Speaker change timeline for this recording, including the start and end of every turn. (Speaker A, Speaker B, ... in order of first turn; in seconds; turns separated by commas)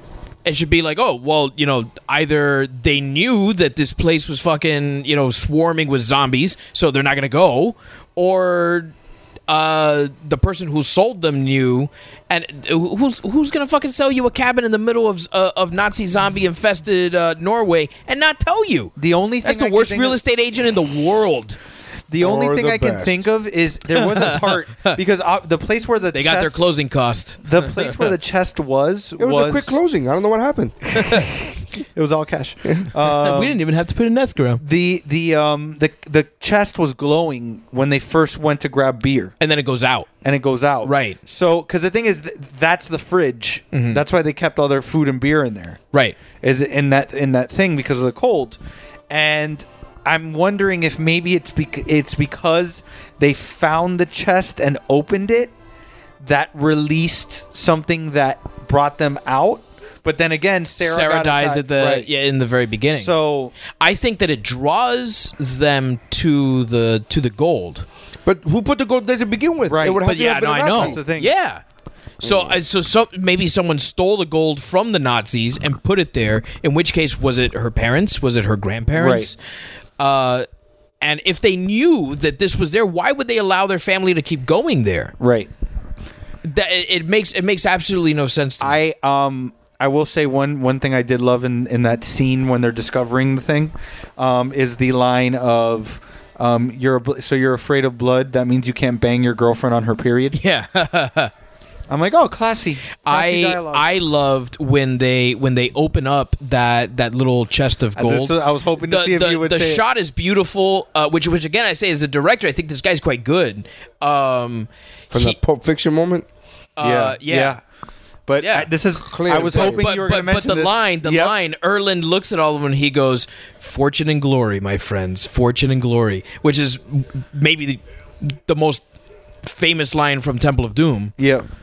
Speaker A: 0.4-8.9, Speaker A: 9.5-21.6, Speaker B: 19.0-20.2, Speaker B: 22.1-26.6, Speaker C: 22.2-23.2, Speaker A: 24.0-24.9, Speaker A: 26.1-27.9, Speaker B: 27.4-29.8, Speaker C: 29.2-31.2, Speaker A: 31.0-31.3, Speaker B: 31.9-33.6, Speaker A: 33.0-34.6, Speaker B: 34.6-39.3, Speaker A: 39.4-40.1, Speaker B: 40.2-45.8, Speaker A: 40.8-41.2, Speaker A: 43.7-44.0, Speaker B: 46.4-48.6, Speaker B: 49.1-55.5, Speaker B: 56.2-62.1, Speaker A: 60.8-63.1, Speaker B: 62.9-63.5, Speaker A: 63.7-67.8, Speaker C: 68.2-71.0, Speaker B: 69.7-70.0, Speaker A: 70.0-71.6, Speaker B: 70.7-71.3, Speaker A: 72.2-79.4, Speaker C: 72.2-72.6, Speaker B: 78.9-79.3, Speaker A: 80.0-80.5, Speaker A: 81.0-85.1, Speaker B: 85.2-85.5, Speaker A: 86.4-88.8, Speaker B: 88.6-100.4, Speaker A: 100.3-101.3, Speaker B: 101.9-103.9, Speaker A: 103.0-115.4, Speaker B: 108.0-109.8, Speaker C: 115.1-116.2, Speaker A: 116.8-117.6, Speaker B: 116.8-117.6, Speaker B: 118.3-121.3, Speaker A: 118.4-118.7, Speaker C: 119.0-119.8, Speaker A: 119.3-128.8, Speaker A: 129.4-131.1, Speaker B: 131.2-131.4